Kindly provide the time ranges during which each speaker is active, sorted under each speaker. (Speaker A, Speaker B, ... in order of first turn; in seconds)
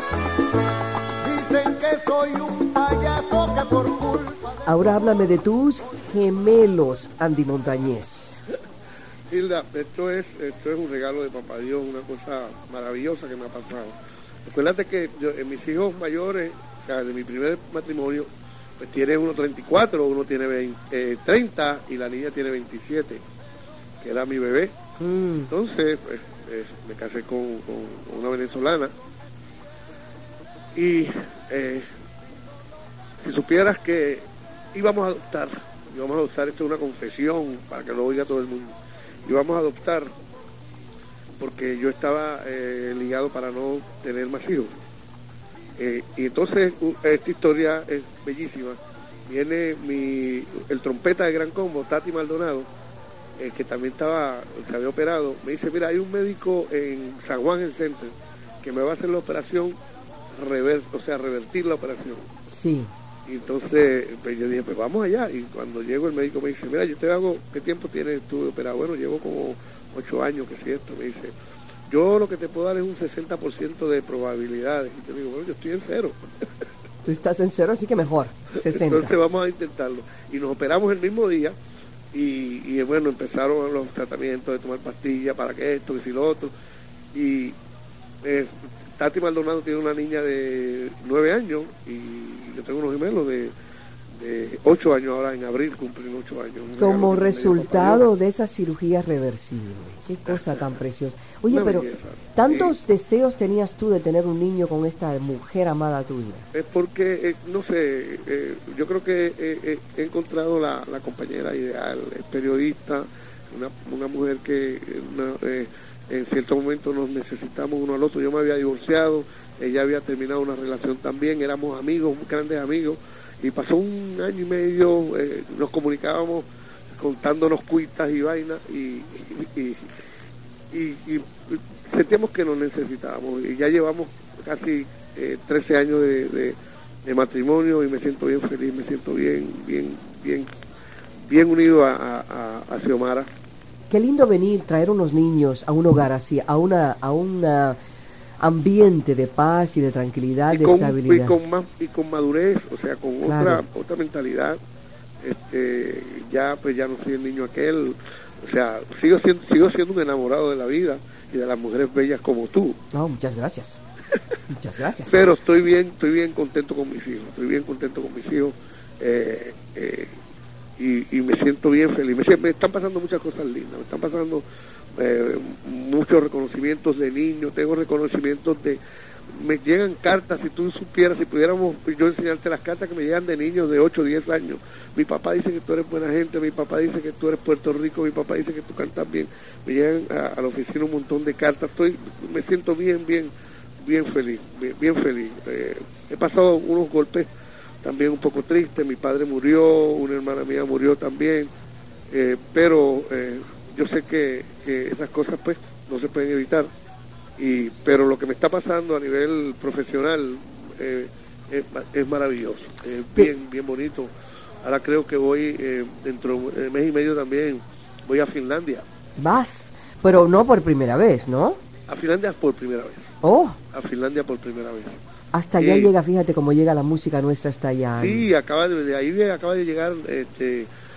Speaker A: 1.2-4.6
Speaker B: 1.5-2.4, 9.3-13.9, 14.4-23.2, 24.0-24.7, 25.5-28.9, 30.7-31.9, 33.2-40.1, 41.4-44.7, 45.8-52.7, 53.4-59.8, 60.3-62.3, 63.2-71.3, 71.9-76.4, 78.6-81.5, 82.1-86.5, 87.1-87.6, 88.2-93.5, 94.2-98.0, 100.3-100.7, 101.5-102.7, 106.5-129.9, 130.7-140.5, 141.3-143.3, 150.5-154.6, 155.2-162.8, 165.1-170.2, 170.8-197.3, 197.8-201.5, 202.1-206.7, 207.4-214.1, 214.6-218.8, 221.9-223.1, 223.7-225.0, 225.6-225.9, 228.0-230.7
Speaker C: 4.6-8.4, 25.0-25.5, 62.5-62.9, 77.0-79.1, 96.8-106.5, 143.9-147.8, 148.4-151.4, 153.2-153.6, 162.9-163.8, 164.5-165.3, 219.2-221.6, 223.2-223.6, 225.3-228.3